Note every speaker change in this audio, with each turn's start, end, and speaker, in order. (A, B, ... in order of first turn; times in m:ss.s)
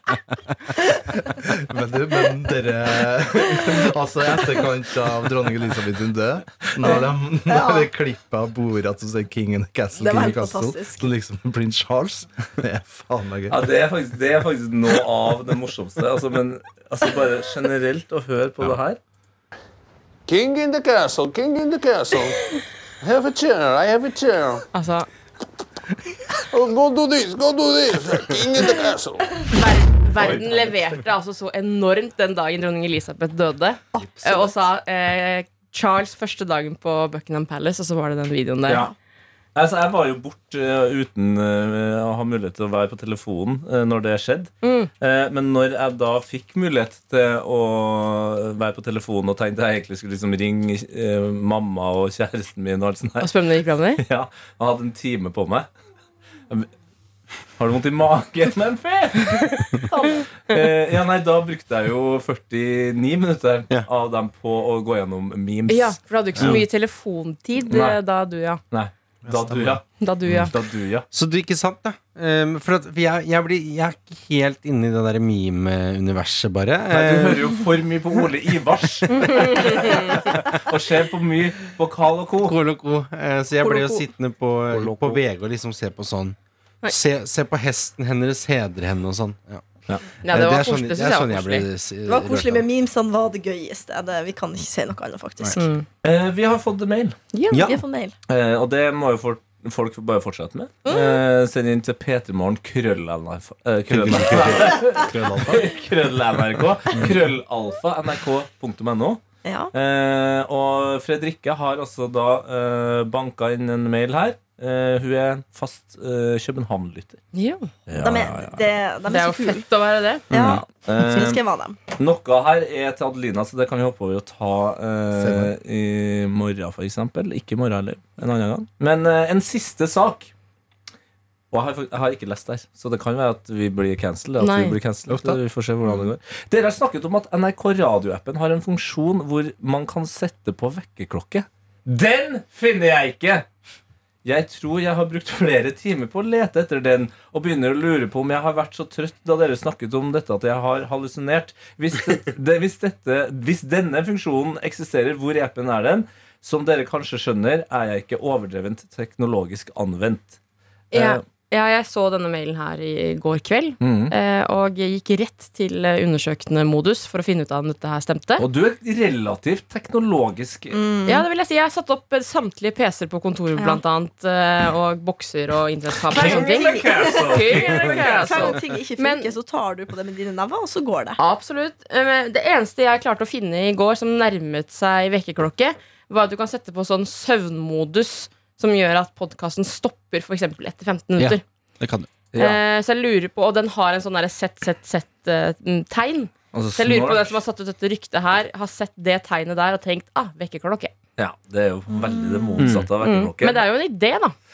0:01.3-0:13.6 A
0:06.8-0:07.9 B
0:10.0-0:11.1 B
0:13.5-0:19.0 C
0:20.3-0:22.4 D
0:23.0-0:24.6 D
0:24.7-0:25.1 E
0:26.5-0:29.3 D
0:29.5-0:38.8 E
0:30.2-0:30.7 C
0:33.9-0:34.5 B
0:39.5-0:53.3 C
0:44.6-0:44.9 E
0:53.2-0:54.0 E
0:54.0-0:55.7 C
0:57.6-0:59.8 C
0:59.6-1:00.6 E
1:00.5-1:06.6 C
1:05.7-1:08.6 E
1:07.7-1:08.0 C
1:08.7-1:11.0 C
1:09.2-1:09.8 A
1:10.0-1:10.5 E
1:11.1-1:17.5 F
1:16.9-1:22.6 C
1:19.1-1:20.2 E
1:22.4-1:26.4 F
1:23.6-1:23.9 E
1:24.7-1:25.2 C
1:26.9-1:29.6 F
1:30.2-1:31.6 E
1:30.2-1:32.6 F
1:32.0-1:35.6 B
1:35.6-1:35.8 E
1:36.0-1:37.2 C
1:37.3-1:37.7 E
1:37.5-1:37.8 F
1:37.6-1:38.1 B
1:38.3-1:49.2 C
1:40.8-1:41.2 B
1:43.9-1:44.8 F
1:44.3-1:45.7 A
1:49.4-1:49.7 B
1:49.7-1:57.2 C
1:57.3-1:57.7 E
1:57.9-1:58.6 C
1:58.0-1:59.6 B
1:59.1-2:00.2 E
2:00.3-2:01.8 B
2:00.3-2:01.4 C
2:02.0-2:10.3 C
2:05.1-2:05.5 A
2:11.5-2:23.5 C
2:14.4-2:14.8 E
2:15.1-2:15.4 A
2:24.2-2:40.4 C
2:40.9-2:41.2 C
2:40.9-2:48.4 E
2:43.8-2:44.1 C
2:48.4-2:50.8 C
2:50.7-2:51.2 B
2:51.0-2:59.3 E
2:53.6-2:53.8 B
2:56.1-2:58.6 C
2:56.1-3:01.2 B
3:01.2-3:11.4 E
3:11.2-3:12.1 F
3:12.3-3:12.6 C
3:12.4-3:20.9 E
3:16.5-3:17.3 C
3:21.2-3:23.6 C
3:22.2-3:22.5 B
3:22.6-3:22.9 F
3:23.0-3:24.3 E